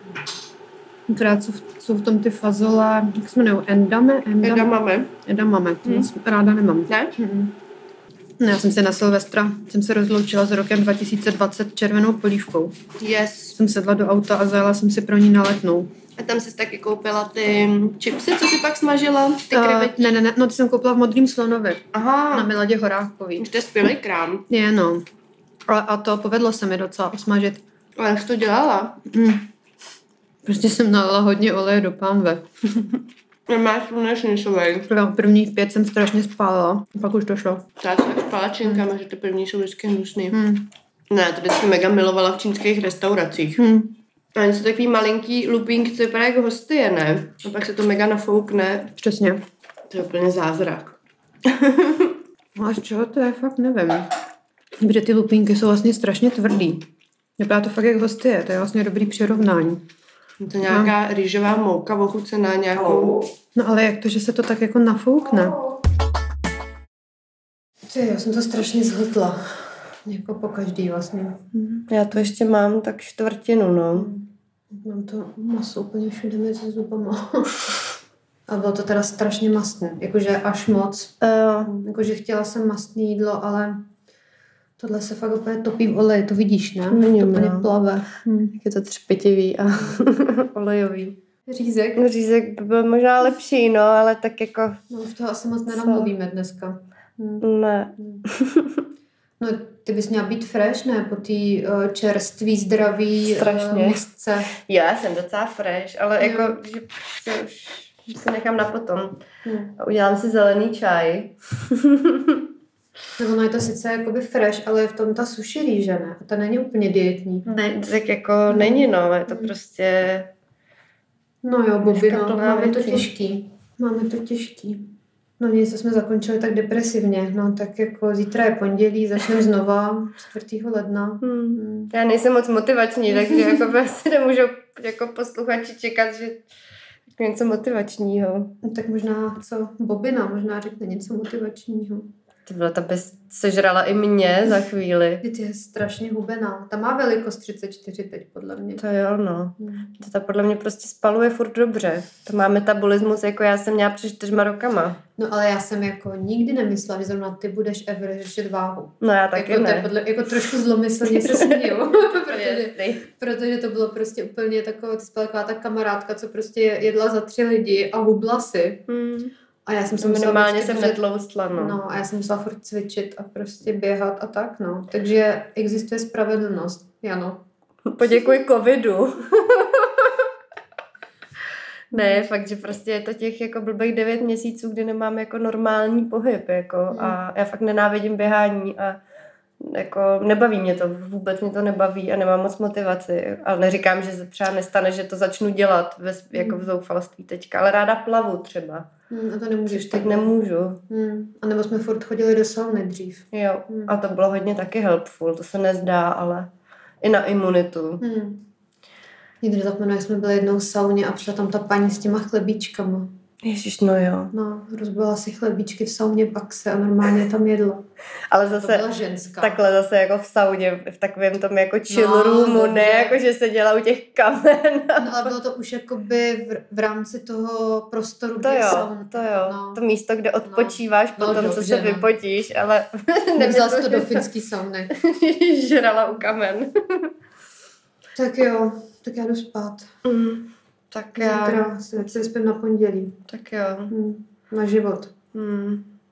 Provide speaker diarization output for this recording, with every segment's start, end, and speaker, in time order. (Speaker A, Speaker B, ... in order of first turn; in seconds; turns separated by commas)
Speaker A: 1.1-7.6, Speaker B: 4.4-5.1, Speaker B: 6.9-7.2, Speaker A: 8.4-12.8, Speaker B: 13.0-13.6, Speaker A: 13.5-15.9, Speaker B: 16.1-20.1, Speaker A: 19.5-23.5, Speaker B: 21.9-22.5, Speaker B: 23.4-24.4, Speaker A: 24.5-25.0, Speaker A: 25.7-27.6, Speaker B: 28.0-29.0, Speaker A: 29.1-29.5, Speaker A: 30.4-32.5, Speaker B: 33.5-34.9, Speaker A: 34.9-37.7, Speaker B: 37.8-40.4, Speaker A: 40.3-40.7, Speaker B: 41.1-43.6, Speaker A: 43.6-43.9, Speaker B: 44.3-48.9, Speaker A: 49.0-49.4, Speaker B: 49.9-52.2, Speaker A: 52.5-54.1, Speaker A: 54.8-56.8, Speaker A: 57.4-59.8, Speaker B: 60.4-63.3, Speaker A: 60.6-60.9, Speaker A: 63.5-65.6, Speaker B: 65.4-65.7, Speaker A: 67.9-71.8, Speaker B: 71.9-74.1, Speaker A: 73.9-77.7, Speaker A: 78.5-83.9, Speaker B: 81.2-81.7, Speaker A: 84.8-88.5, Speaker B: 86.9-87.7, Speaker B: 88.6-91.2, Speaker A: 89.7-90.1, Speaker A: 91.5-92.0, Speaker B: 92.0-94.8, Speaker A: 94.9-97.4, Speaker B: 95.7-96.1, Speaker B: 97.4-98.8, Speaker A: 98.0-98.2, Speaker A: 99.4-104.5, Speaker B: 103.2-109.2, Speaker A: 106.2-106.6, Speaker A: 109.4-109.8, Speaker B: 109.8-112.4, Speaker A: 113.2-117.5, Speaker B: 117.5-120.3, Speaker A: 118.5-119.5, Speaker A: 121.4-124.9, Speaker B: 121.8-123.1, Speaker A: 125.4-131.9, Speaker B: 131.2-136.4, Speaker A: 133.1-133.6, Speaker B: 137.2-138.5, Speaker A: 138.6-142.1, Speaker B: 142.4-145.2, Speaker A: 145.2-148.8, Speaker B: 148.8-155.0, Speaker A: 149.6-149.9, Speaker A: 155.2-168.8, Speaker B: 159.0-159.9, Speaker B: 161.1-163.0, Speaker B: 168.9-169.3, Speaker A: 169.7-171.0, Speaker B: 170.0-171.8, Speaker A: 171.5-177.4, Speaker B: 177.8-180.3, Speaker B: 181.9-189.0, Speaker A: 186.9-187.2, Speaker B: 189.6-198.9, Speaker A: 199.1-200.3, Speaker B: 199.7-200.8, Speaker A: 200.9-203.9, Speaker B: 203.3-206.5, Speaker B: 207.0-208.0, Speaker A: 208.0-208.4, Speaker A: 209.4-213.1, Speaker B: 213.4-214.3, Speaker A: 214.3-217.8, Speaker B: 218.3-218.8, Speaker A: 218.5-219.6, Speaker B: 219.4-225.3, Speaker A: 221.9-223.2, Speaker A: 225.0-229.8, Speaker B: 228.4-234.3, Speaker A: 230.5-232.1, Speaker A: 233.4-234.9, Speaker B: 234.9-237.1, Speaker A: 238.2-239.9, Speaker B: 240.0-241.7, Speaker A: 241.2-243.2, Speaker B: 243.3-243.9, Speaker A: 243.9-245.1, Speaker B: 245.3-245.9